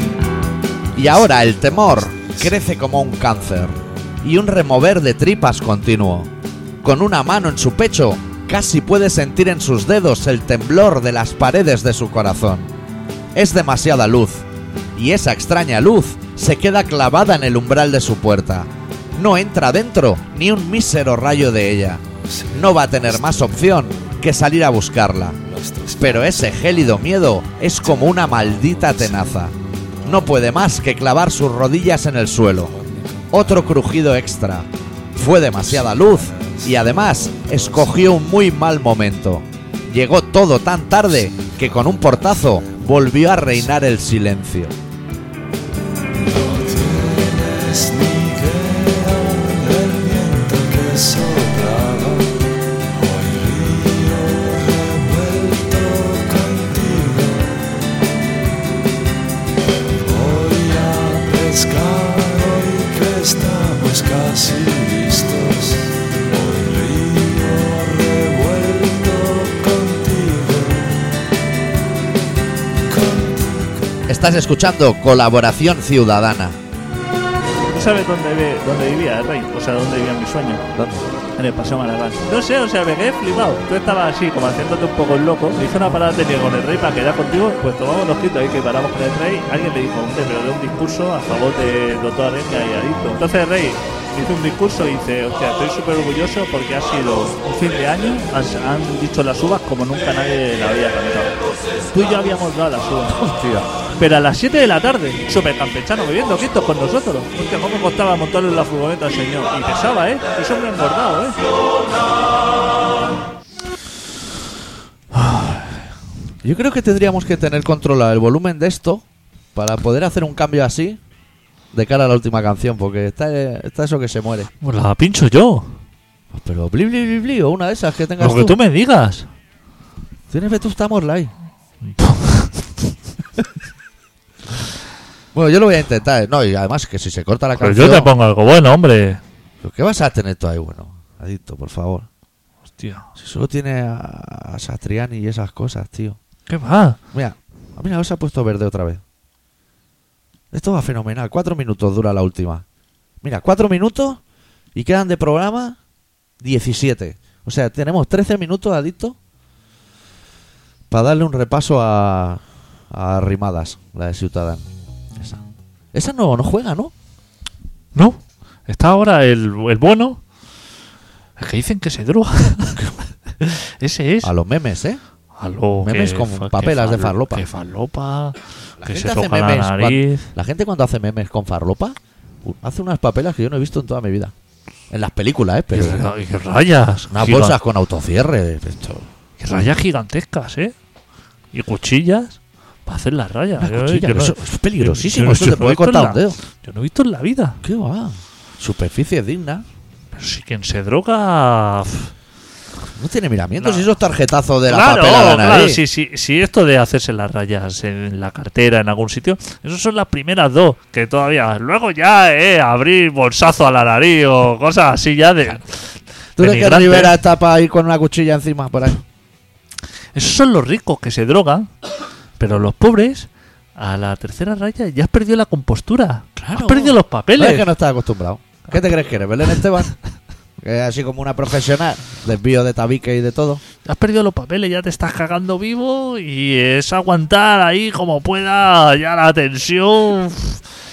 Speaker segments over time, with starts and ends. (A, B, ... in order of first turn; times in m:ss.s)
0:01.0-0:06.3 A
0:06.8-0:12.7 A
0:13.4-0:14.4 A
0:15.0-0:22.0 A
0:22.3-0:24.2 B
0:22.5-0:25.4 A
0:25.5-0:26.6 B
0:26.0-0:29.5 A
0:28.4-0:29.2 B
0:30.0-0:32.7 A
0:32.7-0:33.6 B
0:33.3-0:44.7 A
0:35.9-0:38.1 B
0:46.2-0:52.4 B
0:52.9-0:57.7 B
1:00.0-1:11.2 B
1:12.9-1:13.8 B
1:14.1-1:16.6 A
1:17.7-1:20.7 C
1:20.8-1:21.1 A
1:21.4-1:41.4 C
1:41.9-1:51.4 C
1:55.1-1:55.7 C
1:56.4-1:59.0 A
1:59.6-2:01.0 A
2:01.7-2:04.5 A
2:04.6-2:05.8 C
2:06.3-2:08.6 A
2:08.2-2:09.3 C
2:10.3-2:11.3 A
2:11.9-2:12.7 C
2:15.3-2:18.1 A
2:17.6-2:19.2 C
2:19.6-2:22.1 A
2:22.8-2:23.1 C
2:23.2-2:26.2 A
2:26.5-2:27.0 C
2:27.1-2:29.0 A
2:30.5-2:32.6 A
2:33.2-2:34.2 A
2:34.8-2:35.8 A
2:36.4-2:39.2 A
2:40.9-2:44.6 A
2:45.2-2:45.4 A
2:45.9-2:46.9 A
2:48.0-2:50.2 C
2:51.4-2:54.3 C
2:54.2-2:55.0 A
2:55.4-3:00.3 C
2:55.8-2:57.4 A
2:58.8-3:04.3 A
3:04.9-3:06.0 A
3:05.7-3:07.6 C
3:07.1-3:09.1 A
3:09.4-3:10.7 C
3:11.5-3:17.6 C
3:13.6-3:16.4 A
3:17.6-3:19.6 A
3:20.1-3:22.1 C
3:23.0-3:25.8 A
3:23.6-3:23.8 C
3:24.7-3:37.2 C
3:36.4-3:39.0 A
3:40.2-3:41.7 C
3:42.4-3:47.7 C
3:46.4-3:49.9 A
3:50.6-3:53.6 A
3:53.8-4:00.6 C